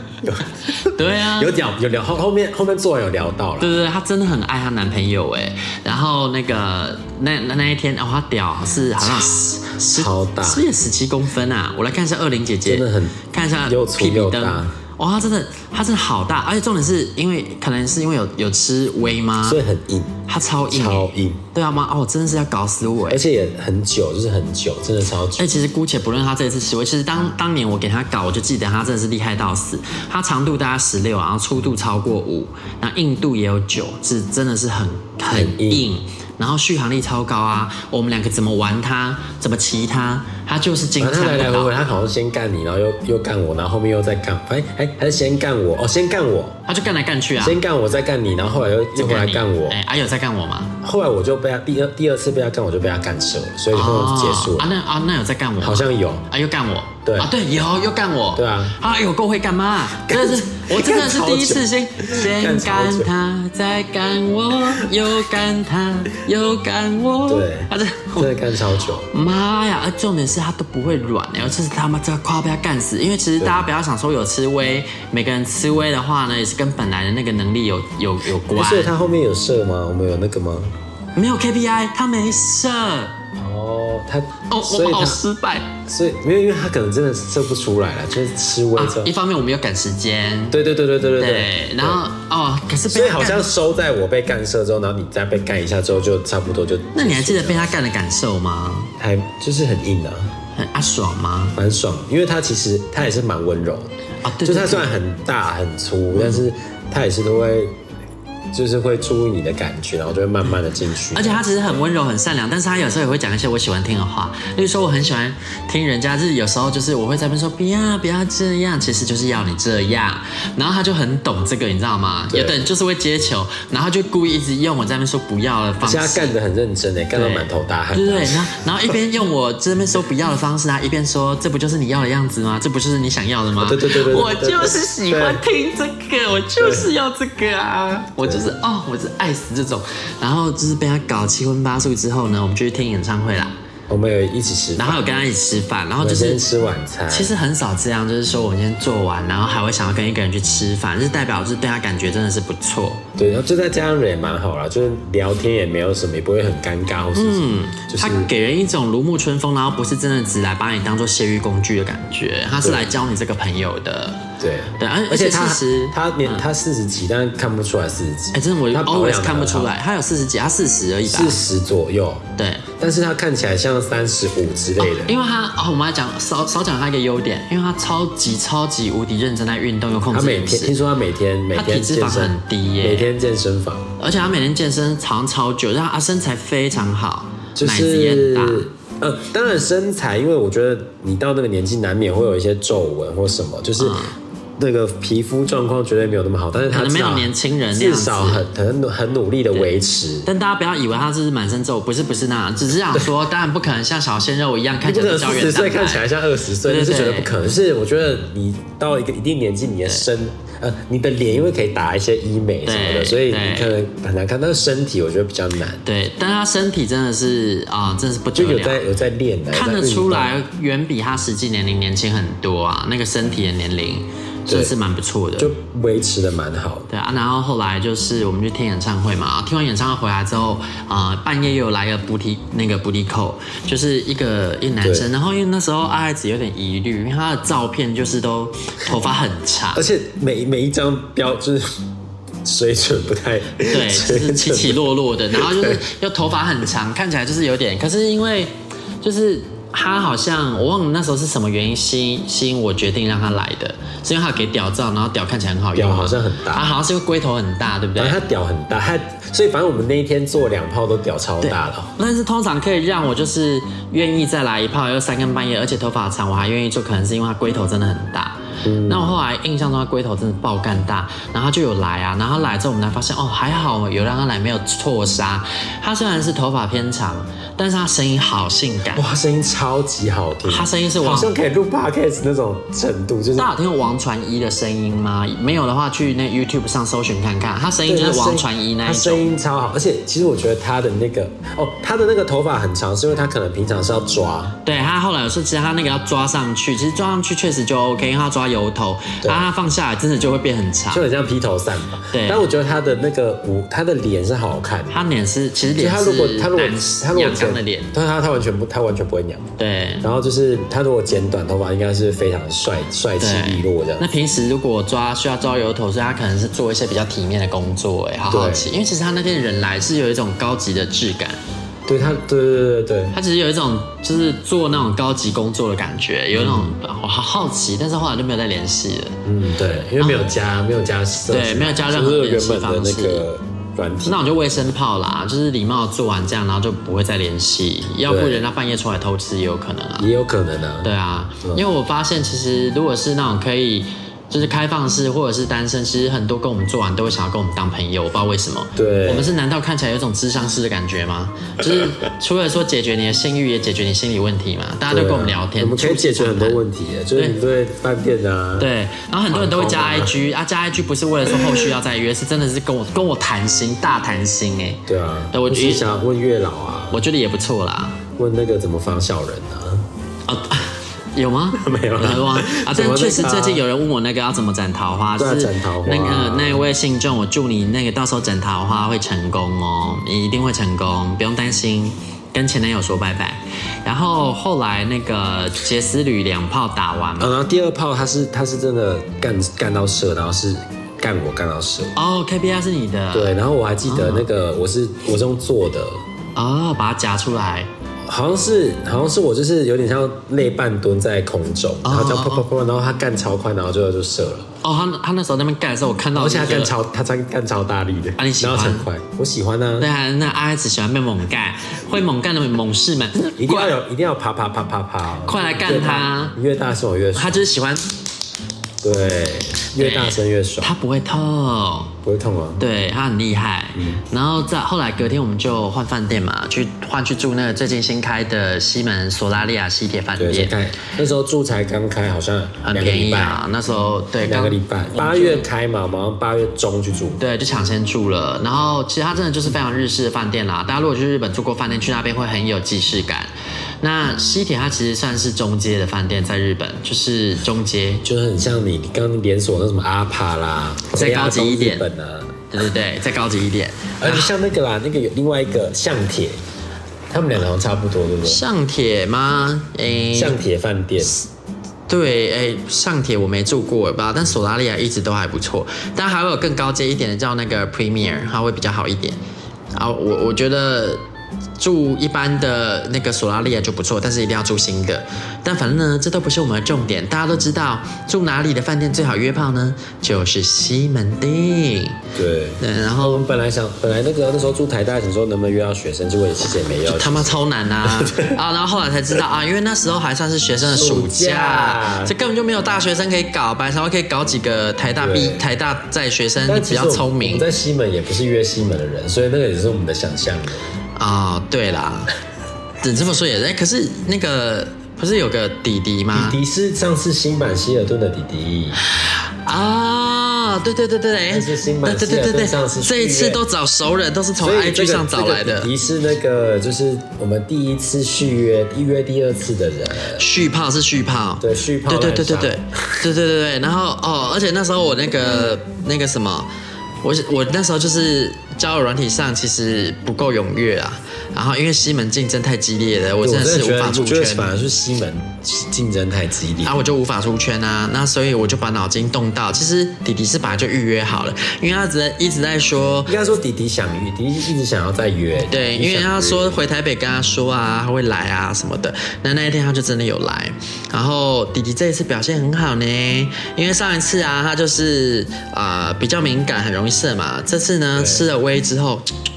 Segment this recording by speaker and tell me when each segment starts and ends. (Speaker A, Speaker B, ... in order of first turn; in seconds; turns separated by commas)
Speaker A: 0.2-3.7, Speaker B: 0.8-1.5, Speaker B: 3.6-19.6, Speaker A: 9.0-10.6, Speaker A: 12.6-14.7, Speaker A: 19.4-20.2, Speaker B: 20.3-23.2, Speaker A: 20.7-21.4, Speaker A: 23.1-25.4, Speaker B: 25.4-41.8, Speaker A: 35.3-35.9, Speaker A: 41.0-46.6, Speaker B: 46.7-47.6, Speaker A: 47.4-49.8, Speaker B: 49.0-50.7, Speaker A: 50.8-54.7, Speaker B: 53.7-68.3, Speaker A: 55.6-56.2, Speaker A: 57.0-57.3, Speaker A: 58.3-58.8, Speaker A: 60.1-63.1, Speaker A: 67.3-69.1, Speaker B: 69.1-78.9, Speaker A: 78.5-80.7, Speaker B: 81.2-83.2, Speaker A: 83.3-85.2, Speaker B: 84.5-85.7, Speaker A: 85.9-89.1, Speaker B: 88.8-90.6, Speaker A: 90.5-92.0, Speaker B: 91.2-93.5, Speaker A: 92.9-97.7, Speaker B: 96.9-98.9, Speaker A: 99.0-100.3, Speaker B: 100.5-101.5, Speaker A: 101.5-103.9, Speaker B: 104.2-104.9, Speaker A: 104.4-107.7, Speaker B: 106.1-106.4, Speaker A: 108.5-111.4, Speaker B: 111.1-126.3, Speaker A: 122.3-122.6, Speaker A: 125.8-128.7, Speaker B: 127.1-143.5, Speaker A: 133.6-135.4, Speaker A: 136.6-136.9, Speaker A: 138.2-138.5, Speaker A: 143.9-145.0, Speaker B: 144.8-146.4, Speaker A: 146.0-147.3, Speaker B: 147.1-153.0, Speaker A: 153.2-158.3, Speaker B: 157.1-166.4, Speaker A: 162.6-162.9, Speaker A: 164.4-169.7, Speaker B: 168.3-171.4, Speaker A: 171.1-172.2, Speaker B: 172.4-172.6, Speaker A: 172.8-175.1, Speaker B: 174.8-180.7, Speaker A: 180.1-183.9, Speaker B: 181.5-183.1, Speaker B: 184.0-188.7, Speaker A: 187.6-194.0, Speaker B: 193.8-194.1, Speaker A: 194.6-200.3, Speaker B: 196.7-198.4, Speaker B: 200.2-206.0, Speaker A: 204.8-215.8, Speaker B: 206.6-207.3, Speaker B: 212.6-213.7, Speaker B: 215.8-218.8, Speaker A: 218.3-220.3, Speaker B: 219.5-225.5, Speaker A: 224.5-224.7, Speaker A: 225.4-226.9, Speaker B: 226.9-239.8, Speaker A: 234.8-235.1, Speaker A: 239.7-241.8, Speaker A: 242.4-245.8, Speaker B: 243.7-258.2, Speaker A: 255.7-256.7, Speaker A: 258.0-261.9, Speaker B: 261.4-279.0, Speaker A: 268.6-269.1, Speaker A: 278.9-283.5, Speaker B: 280.5-281.3, Speaker B: 283.4-289.2, Speaker A: 287.9-294.5, Speaker B: 294.6-301.0, Speaker A: 300.9-304.9, Speaker B: 302.1-302.4, Speaker B: 304.9-307.9, Speaker A: 305.7-314.1, Speaker B: 309.6-310.0, Speaker B: 313.2-321.4, Speaker A: 318.3-318.7, Speaker A: 321.9-323.1, Speaker B: 323.1-329.2, Speaker A: 326.3-326.7, Speaker A: 329.2-334.2, Speaker B: 330.0-330.4, Speaker B: 331.3-333.2, Speaker B: 334.1-340.1, Speaker A: 338.1-338.4, Speaker A: 340.0-340.9, Speaker B: 340.8-356.6, Speaker A: 348.8-349.3, Speaker A: 354.9-358.7, Speaker B: 358.6-365.9, Speaker A: 359.3-360.1, Speaker A: 361.3-361.6, Speaker A: 364.9-367.0, Speaker B: 366.9-368.0, Speaker A: 368.2-369.9, Speaker B: 370.3-387.3, Speaker A: 371.5-373.6, Speaker A: 375.2-376.6, Speaker A: 387.2-391.9, Speaker B: 391.9-394.3, Speaker A: 393.1-396.0, Speaker B: 396.4-397.7, Speaker A: 398.1-404.5, Speaker B: 401.8-402.4, Speaker B: 404.6-406.7, Speaker A: 406.1-409.9, Speaker B: 408.2-408.9, Speaker B: 409.8-413.7, Speaker A: 413.4-417.4, Speaker B: 415.2-416.3, Speaker B: 417.1-417.9, Speaker A: 418.8-420.7, Speaker B: 419.8-421.9, Speaker A: 422.0-422.6, Speaker B: 422.6-430.5, Speaker A: 423.8-424.0, Speaker A: 430.2-433.4, Speaker B: 432.6-435.5, Speaker A: 434.2-437.2, Speaker B: 437.2-448.0, Speaker A: 448.0-452.4, Speaker B: 450.9-451.8, Speaker B: 452.5-454.3, Speaker A: 454.0-456.4, Speaker A: 457.1-458.4, Speaker B: 458.2-460.4, Speaker A: 460.1-461.2, Speaker B: 461.9-469.2, Speaker B: 469.7-471.0, Speaker B: 471.6-482.0, Speaker A: 482.1-488.4, Speaker B: 482.6-483.2, Speaker B: 486.9-497.4, Speaker A: 490.6-492.1, Speaker A: 495.0-495.4, Speaker A: 496.4-500.7, Speaker B: 501.0-502.1, Speaker B: 502.8-506.4, Speaker A: 506.1-508.8, Speaker B: 508.9-515.7, Speaker A: 511.3-513.4, Speaker A: 514.4-520.2, Speaker B: 520.1-526.5, Speaker A: 521.4-523.0, Speaker B: 527.0-534.5, Speaker A: 533.2-536.8, Speaker B: 536.6-543.1, Speaker A: 543.1-546.6, Speaker B: 545.5-559.0, Speaker A: 557.9-558.3